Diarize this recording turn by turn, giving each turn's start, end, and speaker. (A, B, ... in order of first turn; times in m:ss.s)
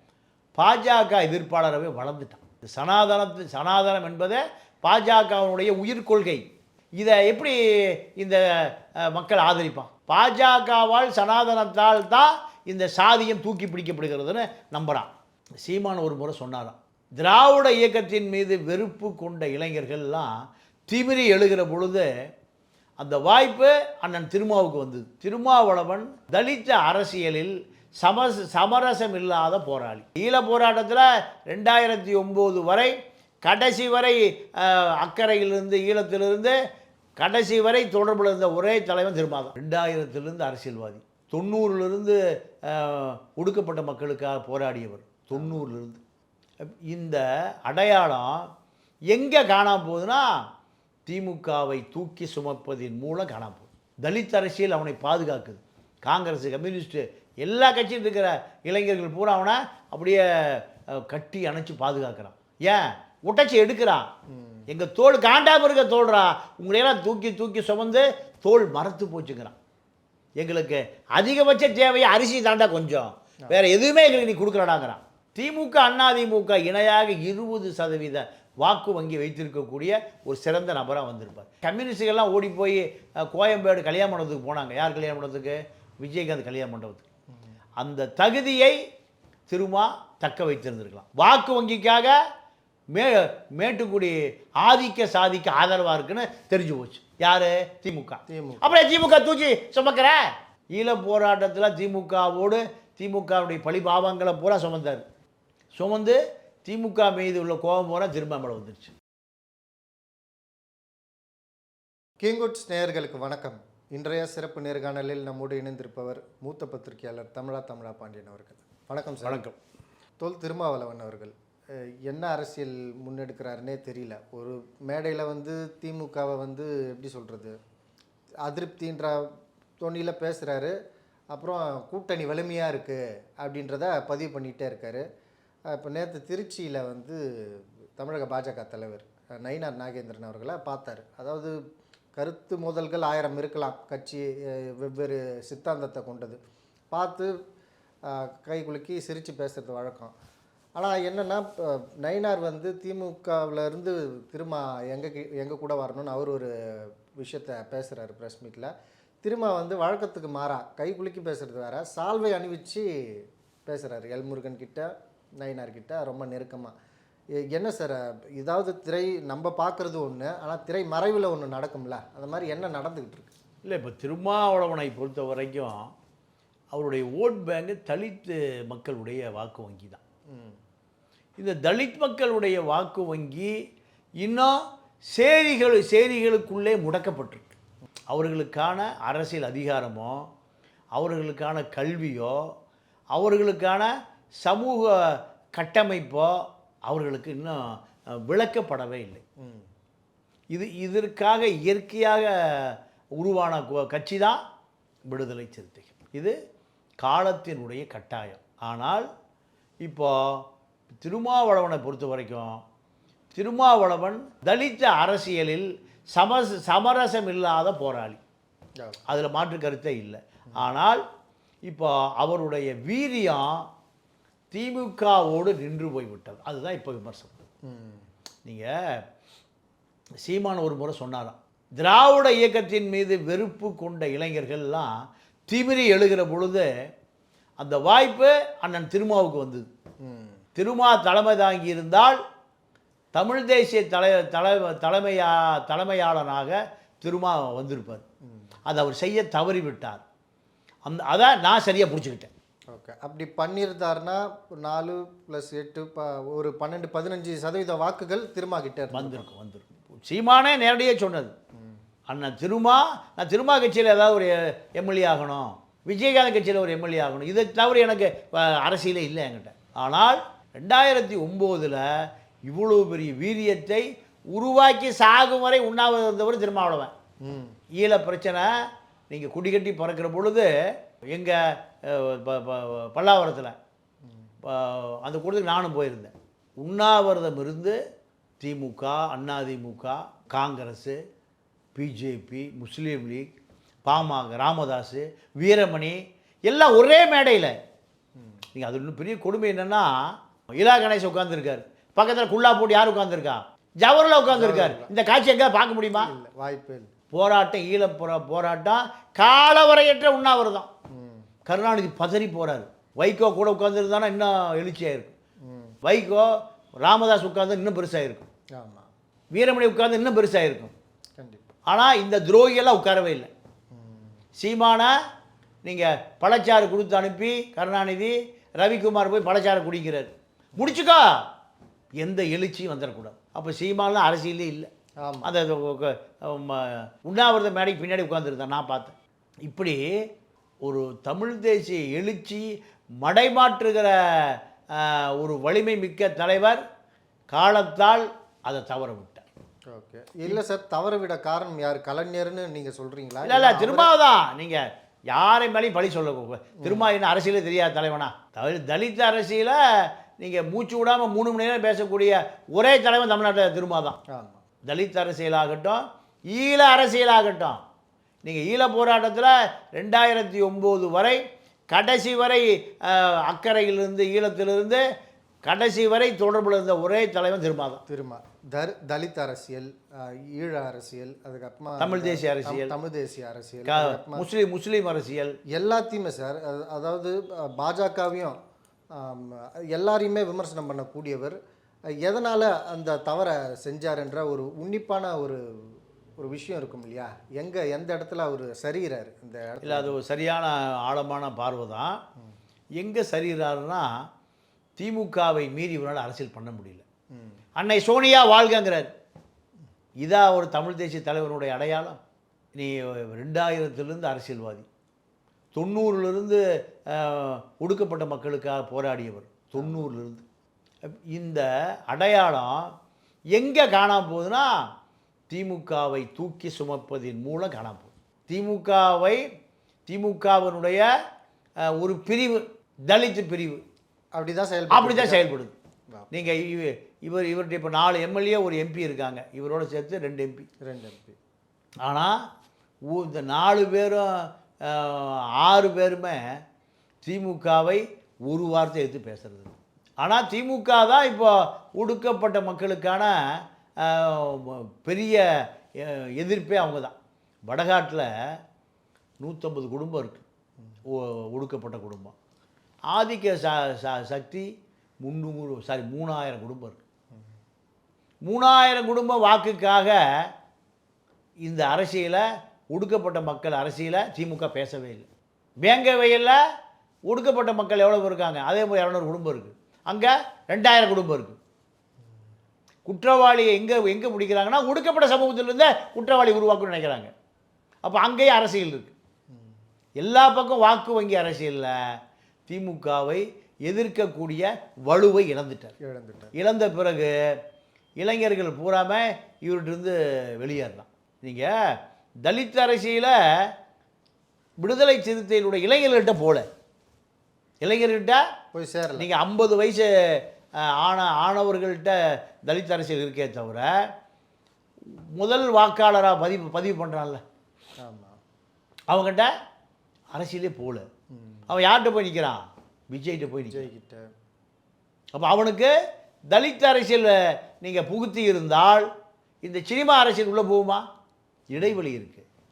0:00.6-0:06.4 A
0:07.0-0:15.1 A
0:15.6-0:20.3 A
0:20.9-0:22.1 A
0:23.0-0:36.6 A
0:37.2-0:46.0 A
0:45.4-0:45.6 B
0:46.6-0:48.5 A
0:49.1-0:50.4 A
0:51.1-1:04.1 A
1:04.3-1:04.7 B
1:04.7-1:09.6 A
1:10.4-1:27.0 A
1:27.8-1:28.8 A
1:29.5-1:32.2 A
1:32.9-1:40.2 A
1:38.3-1:38.8 B
1:40.7-1:45.0 A
1:45.8-1:48.9 A
1:52.2-1:59.4 B
1:59.2-1:59.6 A
2:00.2-2:07.6 B
2:08.4-2:09.3 B
2:09.8-2:10.8 B
2:11.3-2:15.0 B
2:15.7-2:21.6 B
2:22.2-2:26.4 B
2:26.9-2:27.3 B
2:28.0-2:30.2 B
2:30.8-2:38.7 B
2:39.2-2:46.8 B
2:47.5-2:53.3 B
2:53.6-2:55.9 A
2:56.7-3:00.0 A
3:00.3-3:00.6 B
3:01.4-3:03.5 A
3:04.2-3:04.6 A
3:05.1-3:07.6 A
3:08.1-3:10.3 A
3:11.0-3:12.4 A
3:13.2-3:13.9 A
3:14.4-3:19.2 A
3:19.4-3:19.7 B
3:20.5-3:24.4 A
3:25.1-3:26.4 A
3:27.0-3:29.1 A
3:29.8-3:30.4 A
3:31.0-3:32.6 A
3:33.4-3:38.2 A
3:39.1-3:41.0 A
3:41.6-3:43.7 A
3:44.5-3:47.4 A
3:47.6-3:48.1 B
3:48.4-3:49.0 A
3:50.2-3:54.9 A
3:55.5-3:56.7 A
3:57.6-3:59.7 A
4:00.0-4:00.4 B
4:00.6-4:02.2 A
4:03.1-4:08.0 A
4:08.7-4:10.0 A
4:10.9-4:12.3 A
4:12.7-4:19.3 B
4:18.9-4:21.3 A
4:22.1-4:31.9 A
4:32.5-4:36.9 A
4:37.2-4:37.6 B
4:37.7-4:38.5 A
4:39.1-4:40.5 A
4:41.1-4:43.6 A
4:44.4-4:47.8 A
4:48.4-4:51.0 A
4:51.8-4:53.3 A
4:53.9-4:57.5 A
4:58.6-4:59.9 A
5:00.6-5:06.1 A
5:04.3-5:04.9 B
5:06.0-5:06.9 B
5:07.1-5:10.7 A
5:10.9-5:11.3 B
5:11.5-5:15.2 A
5:15.5-5:15.8 B
5:15.8-5:16.3 A
5:16.8-5:18.3 A
5:18.6-5:18.9 B
5:19.3-5:20.7 A
5:21.2-5:21.5 B
5:21.7-5:23.3 A
5:23.7-5:24.1 B
5:24.4-5:24.9 A
5:25.6-5:31.2 A
5:32.0-5:34.7 A
5:35.0-5:35.3 B
5:35.2-5:40.0 A
5:40.6-5:42.5 A
5:43.0-5:46.6 A
5:47.3-5:49.3 A
5:49.7-5:53.9 B
5:53.2-6:04.0 A
5:56.6-5:56.9 B
6:04.1-6:04.4 B
6:04.7-6:07.6 A
6:08.2-6:11.2 A
6:11.7-6:14.8 A
6:15.5-6:17.8 A
6:17.9-6:24.3 B
6:21.8-6:22.8 A
6:23.6-6:25.4 A
6:25.5-6:28.4 B
6:28.9-6:31.4 B
6:31.9-6:40.0 B
6:39.6-6:42.0 A
6:42.8-6:43.9 A
6:44.8-6:46.8 A
6:47.6-6:48.9 A
6:50.0-6:52.0 A
6:52.6-6:54.7 A
6:55.6-7:00.2 A
6:59.6-6:59.9 B
7:00.9-7:02.7 A
7:03.4-7:04.6 A
7:05.3-7:09.2 A
7:09.9-7:10.9 A
7:11.7-7:13.6 A
7:14.1-7:15.3 B
7:14.7-7:15.5 A
7:16.1-7:20.5 A
7:20.6-7:21.2 B
7:21.8-7:22.2 A
7:22.9-7:26.3 A
7:27.0-7:37.0 A
7:37.5-7:38.1 A
7:39.2-7:40.2 A
7:40.9-7:42.2 A
7:42.9-7:44.5 A
7:45.0-7:46.8 A
7:48.2-7:50.3 A
7:51.4-7:55.1 A
7:55.6-7:56.4 A
7:57.1-8:01.4 A
8:02.9-8:07.1 A
8:07.8-8:09.0 A
8:10.0-8:11.8 A
8:12.5-8:15.7 A
8:15.8-8:16.3 B
8:16.3-8:17.1 A
8:18.0-8:23.5 A
8:24.6-8:26.5 A
8:27.6-8:28.2 A
8:28.5-8:29.1 B
8:29.0-8:29.9 A
8:30.6-8:33.8 A
8:35.2-8:37.2 A
8:37.8-8:38.2 B
8:38.9-8:39.3 A
8:40.1-8:40.9 A
8:41.2-8:41.4 B
8:41.5-8:43.7 A
8:43.5-8:44.1 B
8:45.2-8:45.7 A
8:46.3-8:48.9 A
8:49.4-8:50.8 A
8:51.5-8:52.3 A